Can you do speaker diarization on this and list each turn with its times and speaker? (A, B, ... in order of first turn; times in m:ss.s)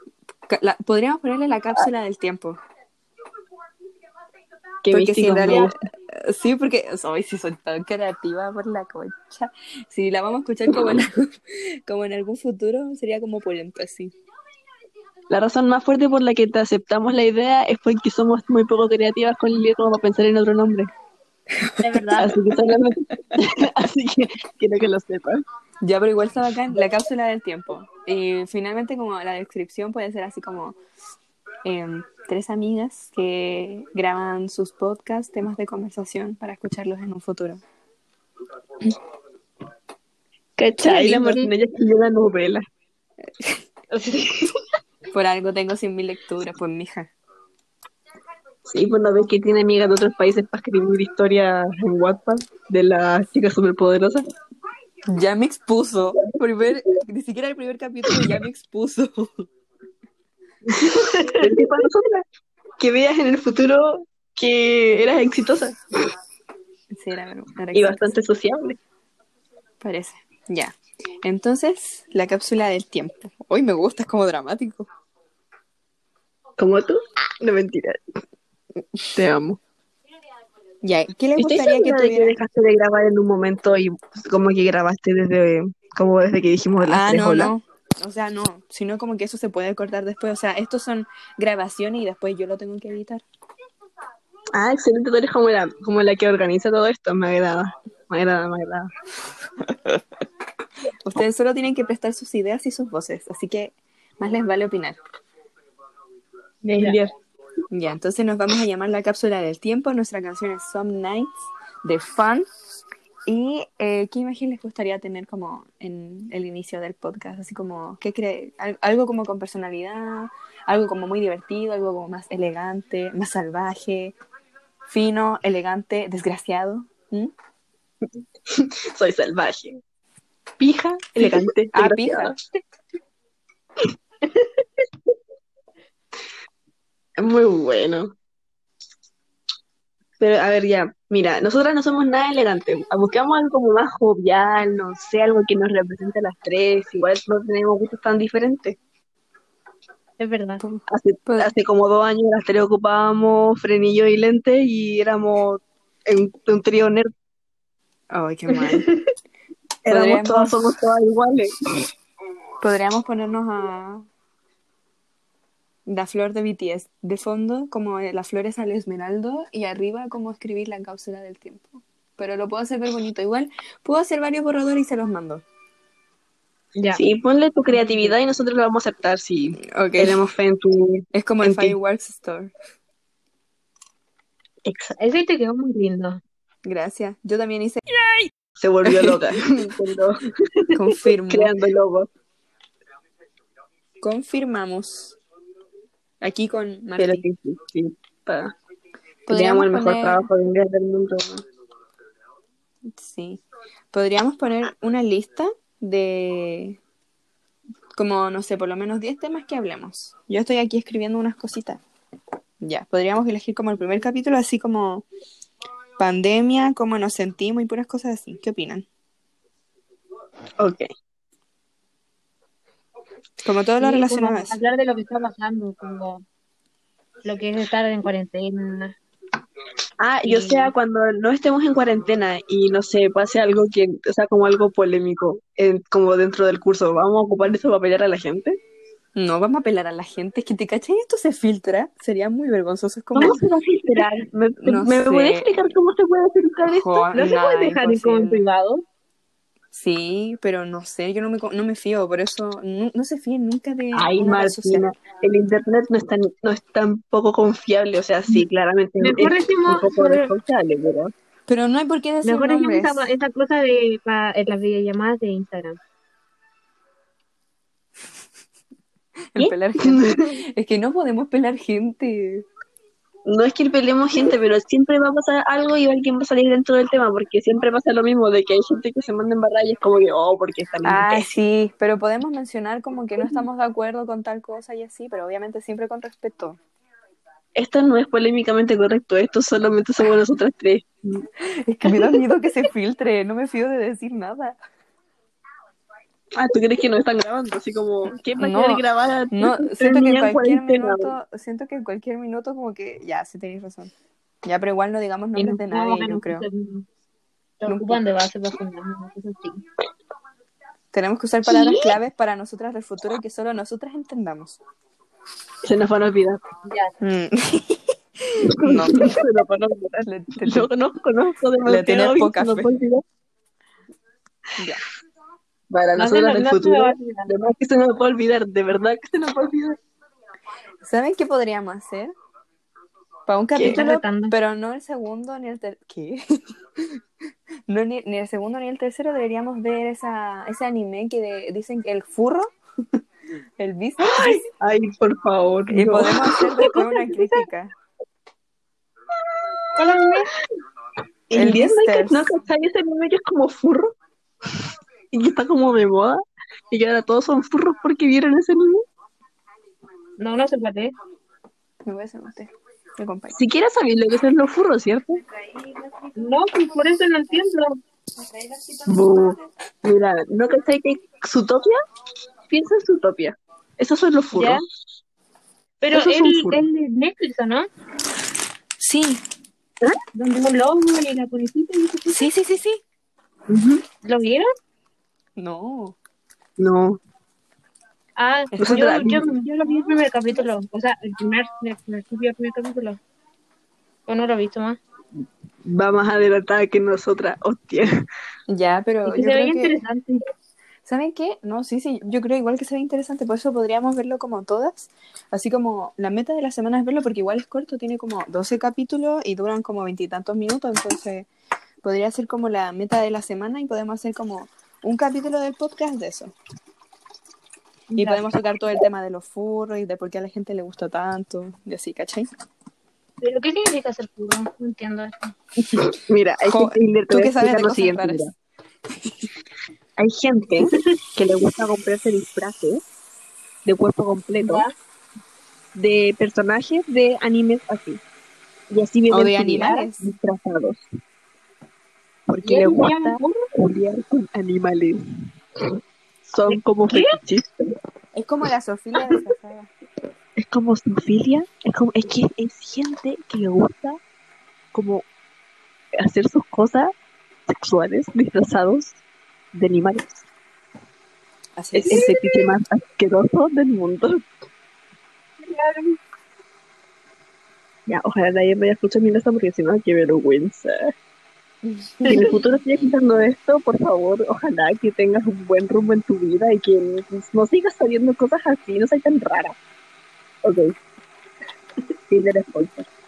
0:00.5-0:02.6 A
0:04.8-0:05.7 B
0:04.9-0:14.1 A
0:05.5-0:05.7 C
0:15.3-0:20.9 B
0:21.5-0:22.4 A
0:21.8-0:22.4 C
0:22.2-0:25.4 B
0:25.8-0:30.8 A
0:31.6-0:37.6 A
0:40.6-0:42.6 B
0:40.8-0:41.4 A
0:40.9-0:41.5 C
0:43.3-0:43.6 A
0:43.9-0:44.5 C
0:45.1-0:47.1 A
0:48.6-0:54.3 B
0:55.0-0:59.4 A
1:00.7-1:02.2 B
1:00.8-1:01.6 C
1:02.8-1:05.8 B
1:06.9-1:08.2 A
1:07.7-1:08.8 B
1:09.8-1:14.9 A
1:16.6-1:18.0 B
1:19.0-1:19.6 B
1:20.8-1:22.4 A
1:21.4-1:27.5 B
1:26.8-1:33.2 A
1:34.5-1:38.9 B
1:41.0-1:45.0 A
1:46.6-1:47.1 B
1:46.7-1:47.0 C
1:47.7-1:51.3 A
1:51.8-1:52.4 A
1:53.3-2:04.2 A
2:04.9-2:07.3 A
2:08.5-2:09.8 B
2:10.6-2:12.4 B
2:11.2-2:12.3 A
2:17.2-2:18.1 B
2:20.2-2:28.8 B
2:30.2-2:30.6 C
2:30.6-2:31.5 A
2:30.9-2:37.1 B
2:38.1-2:38.9 A
2:39.8-2:41.5 B
2:39.9-2:40.7 A
2:42.6-2:44.1 A
2:45.8-2:55.4 A
2:56.8-2:57.0 C
2:56.9-3:01.8 B
2:57.8-2:58.1 C
2:59.6-3:00.2 A
3:01.1-3:02.5 A
3:04.6-3:05.0 B
3:05.0-3:06.2 C
3:06.6-3:07.8 A
3:08.6-3:12.1 B
3:08.9-3:09.4 A
3:10.7-3:11.5 A
3:14.0-3:15.2 A
3:16.2-3:17.2 A
3:17.0-3:18.5 B
3:19.3-3:20.3 A
3:19.3-3:21.4 B
3:22.8-3:26.8 A
3:27.9-3:31.8 A
3:32.6-3:35.0 A
3:36.0-3:38.8 A
3:40.6-3:40.9 B
3:43.4-3:44.6 A
3:43.8-3:46.2 C
3:47.2-3:49.0 C
3:50.0-3:58.6 B
3:50.2-3:50.7 C
3:59.1-4:03.4 A
4:03.1-4:08.4 B
4:04.6-4:05.6 A
4:06.7-4:08.4 A
4:07.6-4:08.8 C
4:09.7-4:14.8 A
4:13.9-4:21.1 B
4:19.0-4:20.3 C
4:21.5-4:23.1 A
4:22.2-4:25.8 C
4:29.3-4:32.4 A
4:29.4-4:30.3 B
4:33.2-4:41.3 B
4:40.8-4:46.6 A
4:47.5-4:51.2 B
4:51.4-4:54.6 A
4:56.3-5:01.1 B
4:58.4-5:03.9 A
5:04.4-5:06.5 A
5:05.4-5:06.8 C
5:07.6-5:09.6 C
5:07.6-5:08.0 A
5:10.9-5:14.6 A
5:11.5-5:11.9 B
5:15.6-5:16.4 B
5:16.7-5:16.9 C
5:17.0-5:19.2 A
5:18.4-5:23.0 B
5:20.0-5:20.7 A
5:21.6-5:22.7 A
5:24.6-5:24.8 A
5:25.7-5:29.8 B
5:26.0-5:27.3 C
5:30.8-5:32.1 A
5:33.3-5:37.0 A
5:33.5-5:33.8 B
5:33.7-5:34.4 C
5:37.7-5:42.5 A
5:43.6-5:44.5 A
5:44.0-5:46.8 B
5:45.7-5:47.7 A
5:46.6-5:47.4 C
5:49.4-5:50.0 B
5:49.8-5:50.3 C
5:51.3-5:53.9 B
5:51.3-5:52.3 A
5:55.1-5:56.2 B
5:56.7-5:58.8 B
6:00.2-6:00.9 C
6:01.8-6:03.4 A
6:03.3-6:05.2 B
6:06.2-6:07.8 C
6:08.4-6:08.8 A
6:08.8-6:11.8 B
6:12.5-6:14.6 B
6:14.3-6:14.6 C
6:15.8-6:17.7 C
6:15.9-6:16.6 B
6:18.8-6:19.2 A
6:20.1-6:22.3 C
6:22.1-6:22.8 A
6:23.5-6:23.8 B
6:24.0-6:24.5 C
6:25.4-6:26.0 A
6:26.6-6:27.0 B
6:28.2-6:33.0 C
6:28.6-6:30.0 A
6:28.6-6:29.3 B
6:34.1-6:34.8 C
6:35.6-6:37.9 B
6:38.5-6:39.8 A
6:39.0-6:40.2 C
6:40.8-6:51.3 A
6:51.8-6:56.3 A
6:57.9-6:58.2 C
6:58.0-7:02.3 A
7:03.2-7:05.3 C
7:05.7-7:08.3 B
7:06.4-7:08.2 A
7:08.9-7:09.3 A
7:10.0-7:12.8 B
7:13.6-7:14.6 B
7:14.4-7:14.7 C
7:15.7-7:18.0 B
7:18.7-7:20.8 B
7:19.1-7:20.0 A
7:22.3-7:25.0 B
7:22.4-7:23.5 C
7:26.3-7:27.7 B
7:26.5-7:27.2 C
7:28.1-7:29.7 A
7:30.4-7:34.0 B
7:34.7-7:35.0 B
7:36.0-7:36.9 B
7:37.5-7:39.0 B
7:39.5-7:40.2 B
7:41.6-7:42.1 A
7:41.7-7:44.2 B
7:41.9-7:42.4 C
7:45.4-7:46.0 C
7:47.9-7:50.9 B
7:51.6-7:52.4 A
7:52.0-7:59.5 B
8:00.4-8:00.7 B
8:02.1-8:02.9 B